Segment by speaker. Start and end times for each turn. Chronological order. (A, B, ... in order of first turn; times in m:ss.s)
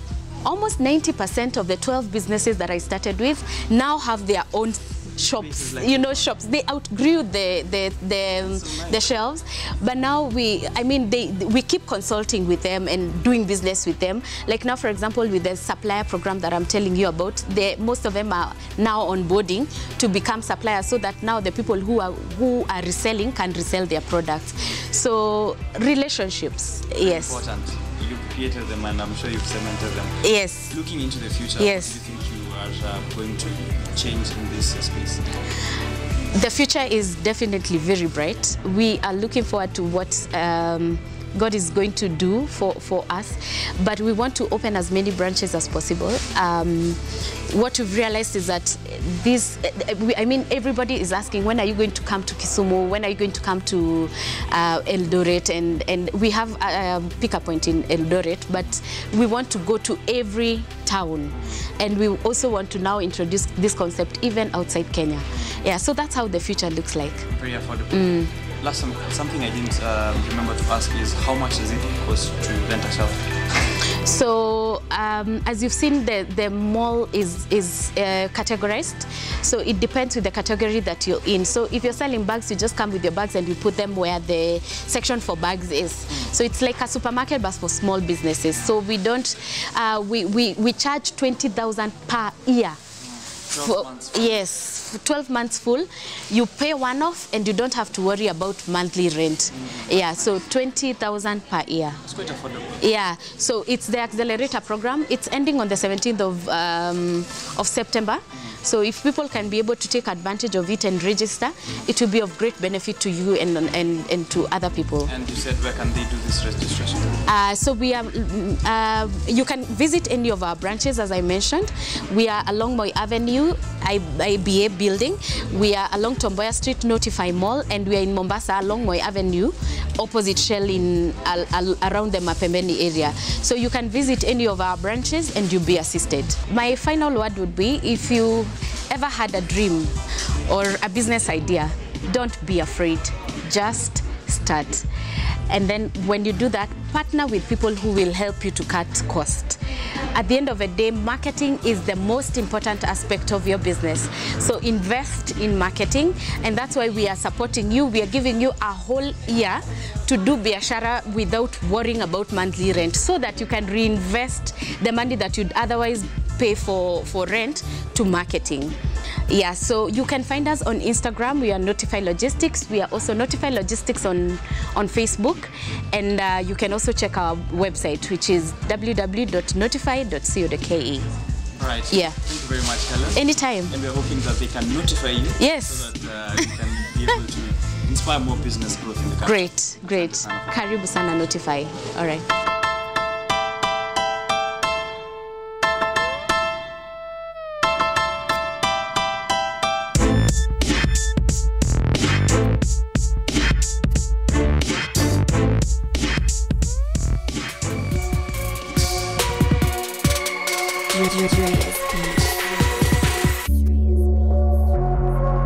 0:00.4-0:27.4 A
0:05.3-0:06.3 B
0:08.4-0:09.1 B
0:27.0-0:35.2 B
0:30.2-0:30.7 A
0:31.6-0:32.0 A
0:36.3-1:07.3 A
1:07.3-1:13.3 B
1:07.9-1:08.3 A
1:14.0-1:32.8 A
1:33.1-1:34.4 B
1:33.5-1:42.0 A
1:39.5-1:40.4 B
1:42.0-1:42.9 B
1:42.8-1:55.1 A
1:55.0-1:57.2 B
1:57.2-2:20.0 A
2:20.5-2:24.9 A
2:25.5-2:29.6 A
2:30.1-2:48.8 A
2:49.3-3:01.1 A
3:01.6-3:10.5 B
3:01.9-3:02.2 A
3:03.1-3:03.7 A
3:05.4-3:05.9 A
3:09.2-3:12.2 A
3:31.0-3:32.3 A